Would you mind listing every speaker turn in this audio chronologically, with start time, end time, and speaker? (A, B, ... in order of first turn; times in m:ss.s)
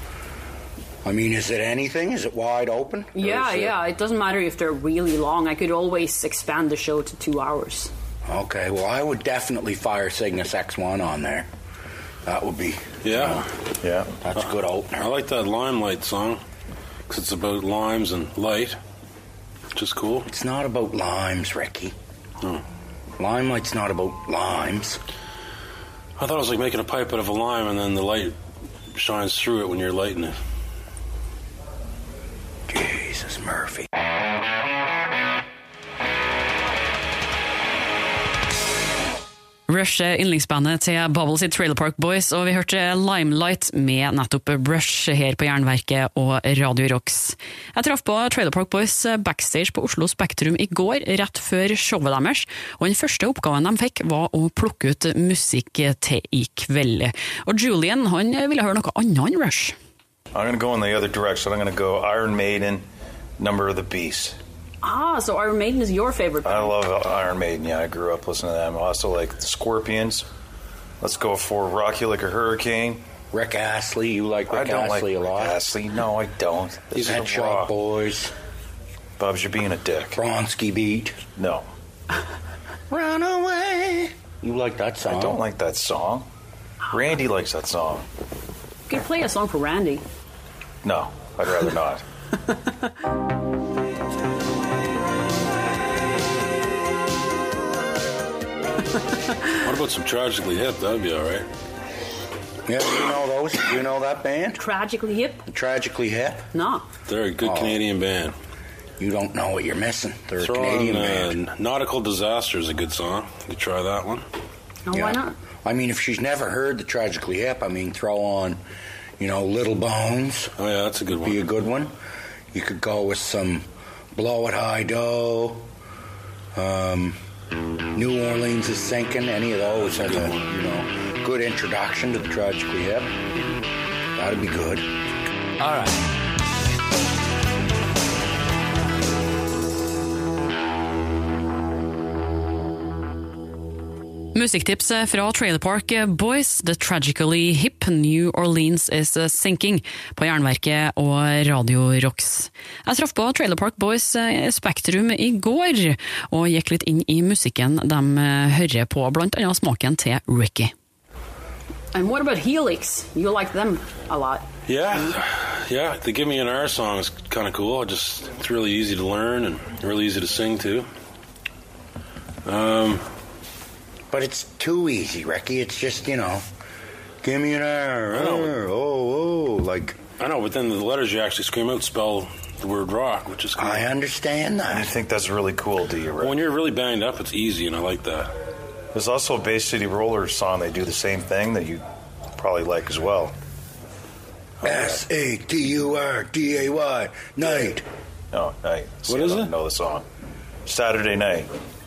0:01.0-0:03.4 A
0:03.1-0:07.9 B
0:03.3-0:03.7 C
0:08.2-0:11.5 A
0:12.2-0:13.5 A
0:13.0-0:13.5 C
0:13.8-0:14.2 D
0:14.2-0:15.1 A
0:14.4-0:16.4 C
0:17.1-0:18.8 C
0:19.7-0:20.3 C
0:20.2-0:21.9 A
0:23.2-0:25.0 A
0:26.2-0:28.3 C
0:28.9-0:30.4 C
0:32.7-0:33.9 A
0:39.7-0:59.7 E
1:00.3-1:02.8 D
1:03.4-1:04.4 D
1:04.8-1:06.7 B
1:06.4-1:10.3 D
1:11.0-1:13.0 D
1:13.3-1:15.6 A
1:14.5-1:17.7 D
1:17.0-1:18.3 A
1:19.2-1:20.2 D
1:20.2-1:21.2 A
1:21.4-1:21.6 D
1:22.9-1:25.4 A
1:25.1-1:26.2 D
1:26.9-1:28.0 D
1:28.9-1:30.0 B
1:30.8-1:32.0 D
1:39.5-1:41.5 C
1:42.6-1:44.6 A
1:44.6-1:45.4 B
1:45.4-1:46.5 A
1:46.5-1:46.9 B
1:47.1-1:48.3 C
1:47.4-1:47.8 A
1:49.0-1:51.4 A
1:50.4-1:54.2 C
1:54.8-1:55.3 B
1:54.9-1:58.6 A
1:59.2-2:00.5 A
2:00.6-2:01.4 C
2:01.2-2:01.9 A
2:02.5-2:05.7 A
2:06.5-2:07.2 A
2:07.9-2:13.1 A
2:14.2-2:14.8 A
2:24.3-2:40.7 E
2:41.9-2:45.2 B
2:44.7-2:50.9 C
2:52.4-2:53.0 C
2:54.1-2:56.4 A
2:57.2-3:00.0 A
2:58.1-2:58.5 C
3:00.2-3:03.9 C
3:03.6-3:04.9 A
3:04.7-3:06.4 D
3:06.2-3:08.3 C
3:08.9-3:11.8 D
3:12.4-3:13.4 D
3:14.6-3:17.8 A
3:18.3-3:20.0 D
3:19.1-3:19.5 C
3:20.6-3:21.5 D